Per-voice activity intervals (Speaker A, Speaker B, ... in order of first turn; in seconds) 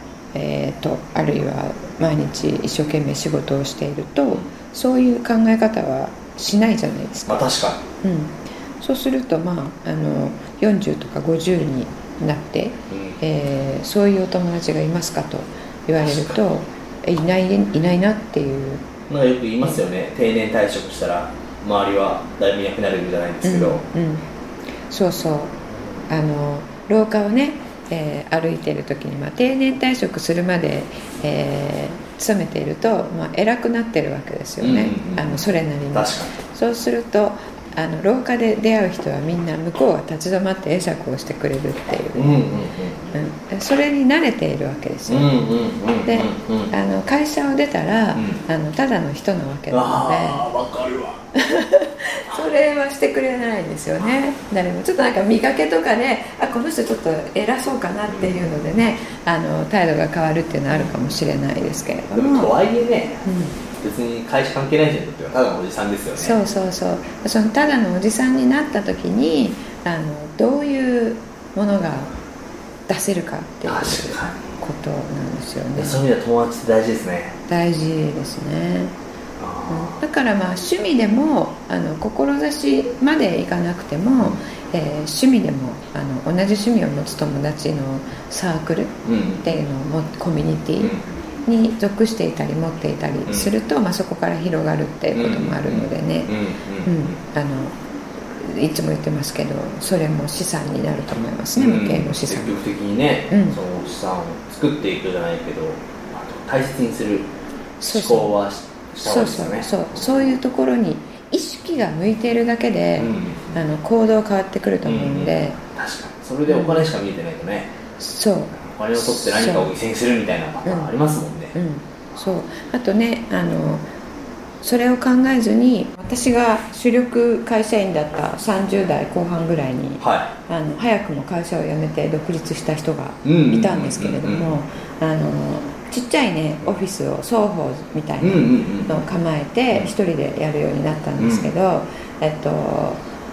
Speaker A: 0.3-18.9, 23.4-24.2, 24.9-42.5, 43.1-45.4, 46.0-50.5, 51.3-62.5, 63.2-63.6, 66.2-72.1, 72.9-76.0, 77.5-78.9, 79.7-97.8, 98.3-102.6, 103.3-103.6, 107.8-108.3, 109.0-115.6, 116.5-116.8, 118.0-119.7, 120.6-123.8, 124.6-143.0
Speaker B: 7.3-7.8, 12.9-13.2, 16.0-16.4, 19.1-23.8, 34.6-36.4, 42.1-43.1, 45.1-46.7, 48.1-48.4, 49.7-51.2, 58.1-58.4, 62.1-63.2, 63.8-66.4, 73.7-74.5, 75.8-77.3, 79.4-80.0, 89.0-89.5, 93.3-93.5, 95.1-97.2, 101.5-107.3, 107.9-110.1, 113.0-113.6, 114.8-117.7, 118.5-121.5, 130.0-130.3, 133.2-134.6, 138.2-139.0, 141.2-141.5